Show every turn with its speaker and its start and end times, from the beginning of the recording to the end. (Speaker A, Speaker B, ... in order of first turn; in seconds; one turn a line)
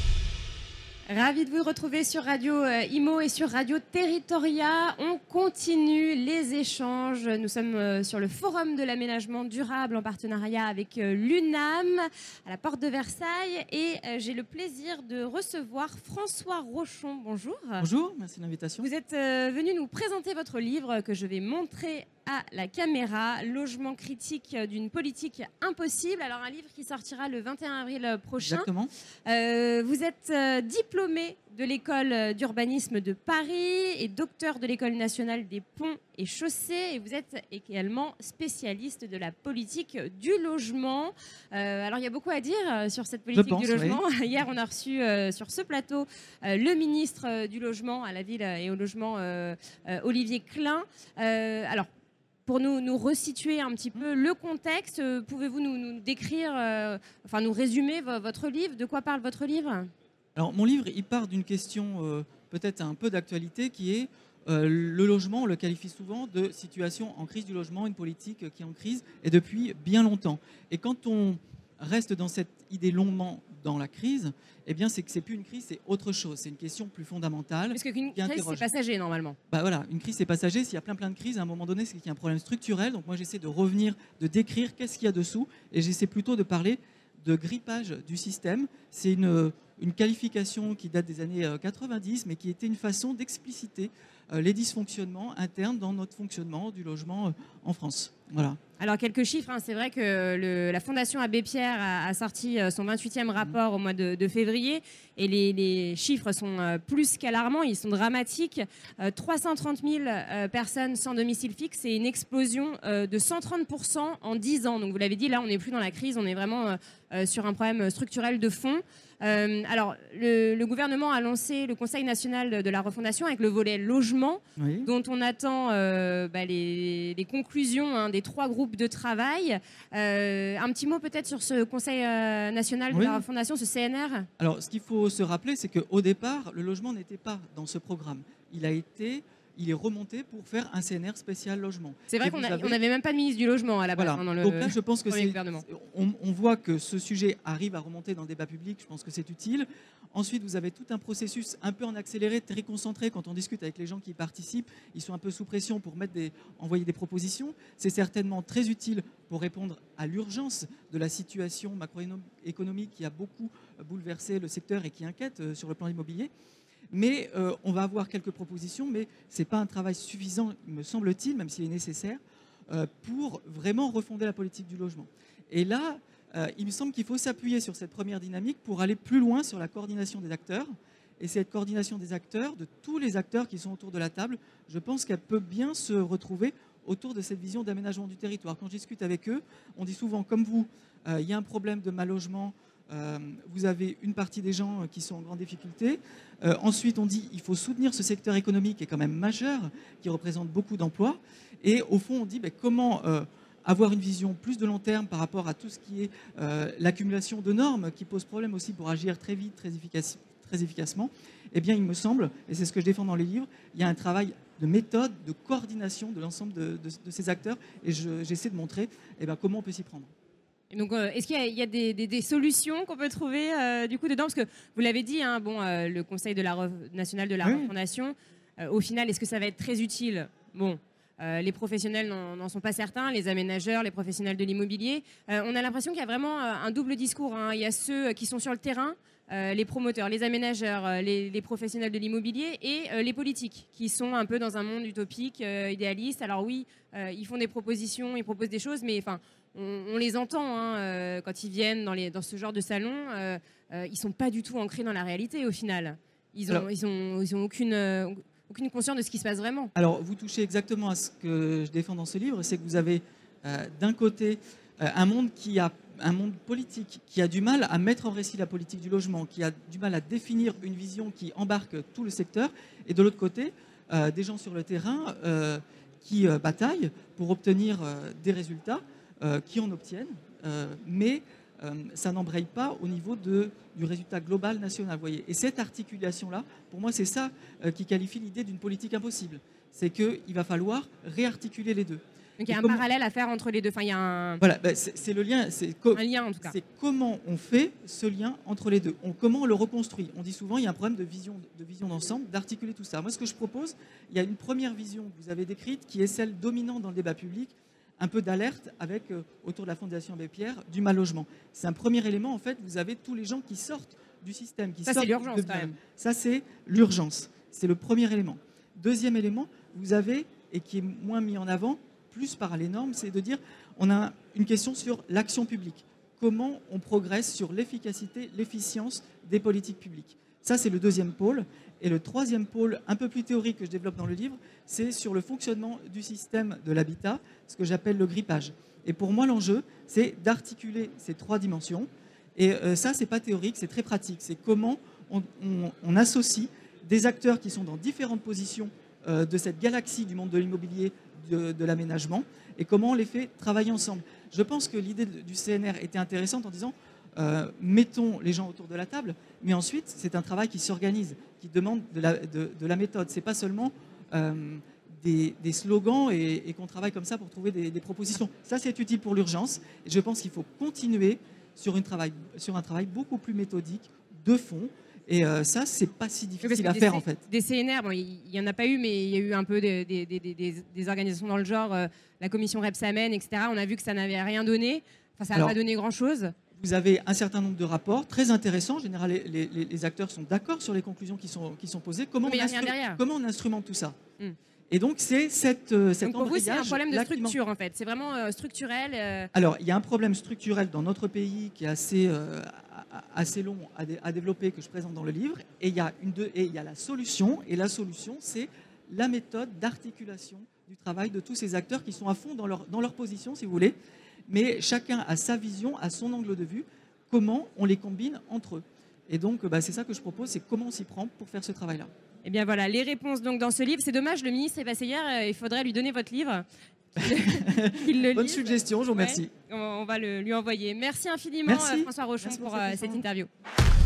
Speaker A: 1.1-17.9
Speaker B: 17.8-18.9
Speaker A: 18.8-28.7
Speaker B: 28.4-28.9
Speaker A: 29.3-51.9
Speaker B: 43.3-44.0
Speaker A: 52.5-59.9
Speaker B: 60.4-78.7
Speaker A: 77.7-79.4
Speaker B: 79.5-98.6
Speaker A: 98.8-134.3
Speaker B: 124.6-124.9
Speaker B: 132.9-133.2
Speaker B: 134.4-142.8
Speaker A: 142.1-145.7
Speaker B: 144.0-166.3
Speaker B: 166.9-220.1
Speaker A: 220.7-259.7
Speaker B: 227.4-227.7
Speaker B: 259.8-292.9
Speaker A: 292.4-294.4
Speaker B: 294.4-377.2
Speaker A: 295.9-296.6
Speaker A: 314.9-315.8
Speaker A: 376.4-386.4
Speaker B: 386.6-394.0
Speaker A: 392.2-393.0
Speaker B: 394.7-397.4
Speaker A: 396.0-399.3
Speaker B: 399.3-413.8
Speaker B: 414.3-421.9
Speaker A: 422.2-433.3
Speaker B: 427.0-429.3
Speaker B: 431.5-433.1